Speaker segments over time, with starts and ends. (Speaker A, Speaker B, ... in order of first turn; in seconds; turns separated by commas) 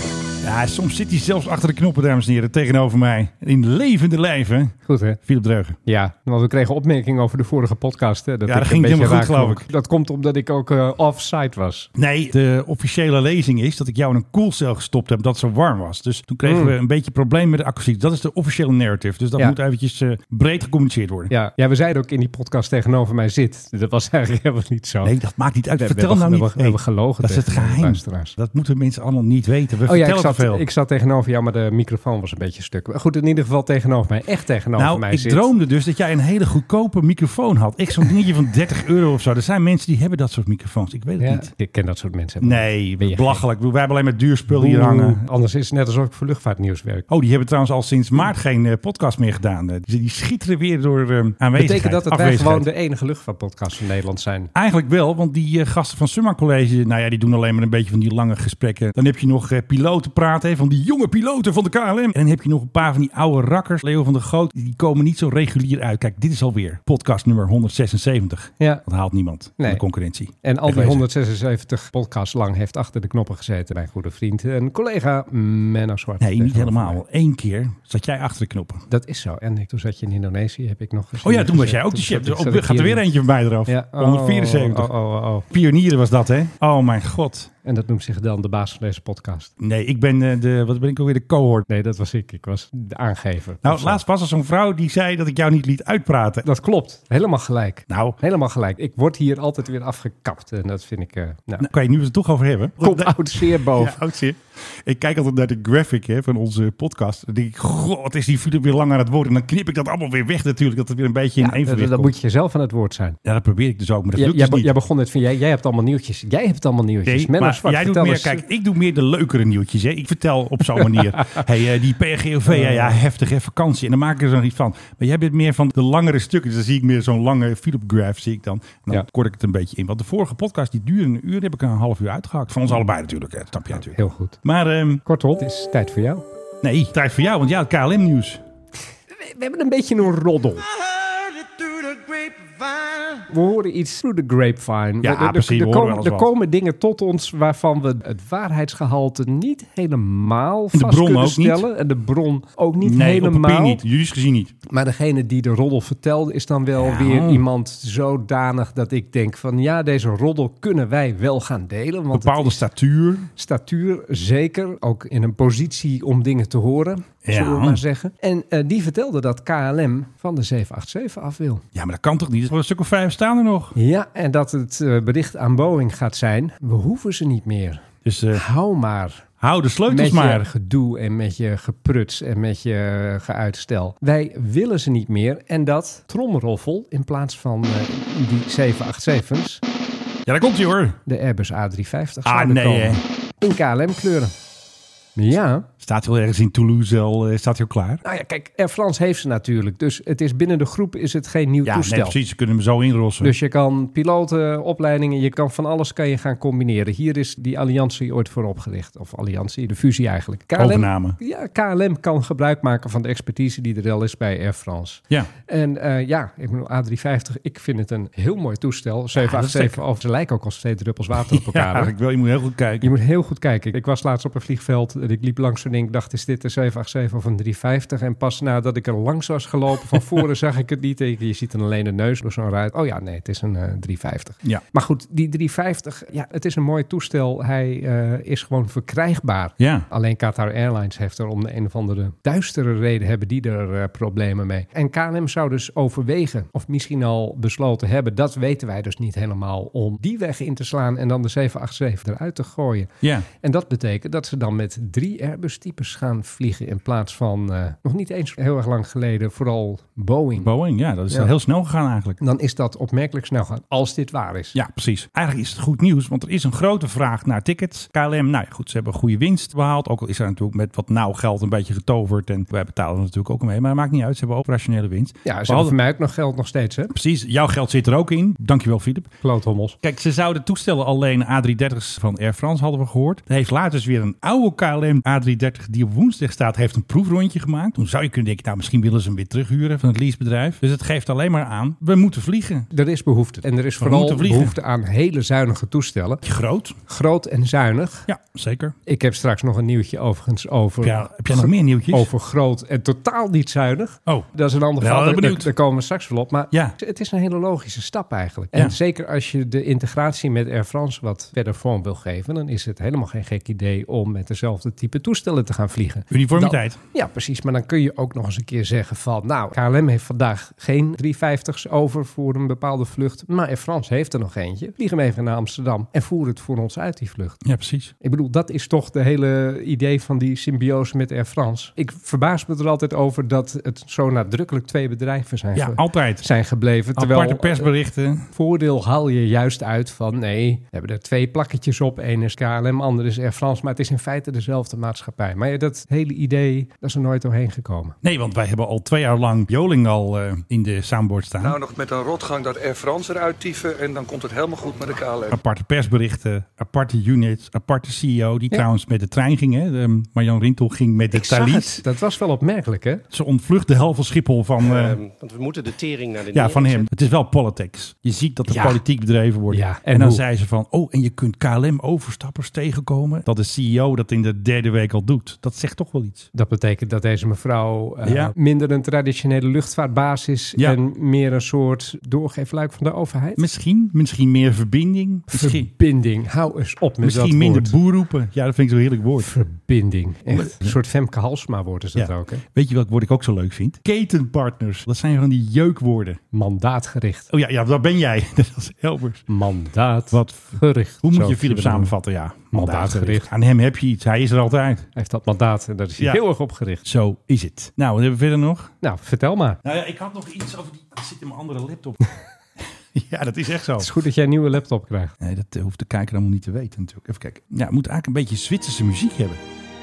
Speaker A: 0.4-5.8, Speaker B: 4.9-5.2, Speaker B: 5.9-11.9, Speaker A: 8.5-9.7, Speaker A: 11.9-21.3, Speaker B: 16.4-16.7, Speaker B: 21.3-25.1, Speaker A: 25.0-30.6, Speaker B: 25.8-28.3, Speaker B: 29.9-35.5, Speaker A: 34.8-41.5, Speaker B: 41.2-43.4, Speaker A: 42.4-45.2, Speaker B: 44.5-47.1, Speaker A: 47.1-52.7, Speaker B: 51.6-54.5, Speaker A: 54.5-71.1, Speaker B: 70.4-77.0, Speaker A: 76.2-78.9, Speaker B: 78.9-83.0, Speaker A: 81.2-84.9, Speaker B: 83.7-85.5, Speaker A: 85.5-87.5, Speaker B: 87.6-89.5, Speaker A: 89.6-91.7, Speaker B: 91.7-94.0, Speaker A: 93.6-96.5, Speaker B: 96.5-101.7, Speaker A: 97.9-98.2, Speaker A: 101.6-112.1, Speaker B: 102.8-104.0, Speaker B: 111.4-113.2, Speaker A: 113.2-114.8, Speaker B: 114.2-118.5, Speaker A: 117.1-135.0, Speaker B: 122.5-123.0, Speaker B: 133.7-134.4, Speaker B: 135.1-136.2, Speaker A: 136.6-138.4, Speaker B: 139.1-140.7, Speaker B: 143.3-153.8, Speaker A: 145.0-146.3, Speaker A: 150.7-151.7, Speaker A: 152.8-154.5, Speaker B: 154.7-162.7, Speaker A: 156.8-157.4, Speaker A: 162.1-163.3, Speaker B: 163.4-171.6, Speaker A: 167.2-167.8, Speaker A: 171.8-173.8, Speaker B: 173.8-179.3, Speaker A: 178.1-178.4, Speaker A: 179.4-180.5, Speaker B: 179.9-189.6, Speaker A: 190.3-191.0, Speaker B: 191.1-194.3, Speaker A: 192.2-193.0, Speaker B: 195.2-195.7, Speaker A: 195.8-198.0, Speaker B: 198.0-202.2, Speaker A: 201.6-203.3, Speaker B: 203.2-221.9, Speaker A: 210.6-211.2, Speaker A: 219.2-219.8, Speaker A: 221.2-222.9, Speaker B: 222.8-260.5, Speaker A: 239.6-239.9, Speaker A: 253.0-253.3, Speaker A: 260.4-262.2, Speaker B: 262.2-264.6, Speaker A: 264.6-275.8, Speaker B: 275.2-276.9, Speaker A: 276.9-279.1, Speaker B: 279.2-279.8, Speaker A: 279.8-292.7, Speaker B: 292.7-296.2, Speaker A: 293.8-294.6, Speaker A: 296.2-296.8, Speaker B: 296.9-298.1, Speaker A: 298.1-298.8, Speaker B: 298.9-327.4, Speaker A: 300.8-302.1, Speaker A: 304.1-305.5, Speaker A: 316.1-316.8, Speaker A: 327.4-327.9, Speaker B: 328.0-337.7, Speaker A: 335.6-336.3, Speaker A: 337.0-338.3, Speaker B: 338.3-348.0, Speaker A: 348.0-351.6, Speaker C: 351.4-355.4, Speaker A: 355.3-361.8, Speaker B: 361.1-363.0, Speaker A: 363.1-365.0, Speaker D: 364.6-366.9, Speaker A: 366.3-376.3, Speaker B: 368.5-368.8, Speaker B: 369.5-370.2, Speaker B: 376.3-383.4, Speaker A: 378.0-378.3, Speaker A: 383.4-385.7, Speaker B: 385.3-387.8, Speaker A: 387.0-389.3, Speaker B: 389.2-392.4, Speaker A: 390.3-390.8, Speaker A: 392.0-396.2, Speaker B: 396.3-397.3, Speaker A: 397.3-399.3, Speaker B: 399.3-401.9, Speaker A: 400.1-404.9, Speaker B: 402.5-403.3, Speaker B: 405.0-406.8, Speaker A: 406.8-408.7, Speaker B: 408.8-409.6, Speaker A: 409.6-412.0, Speaker A: 412.6-413.9, Speaker B: 413.8-415.1, Speaker A: 415.2-419.4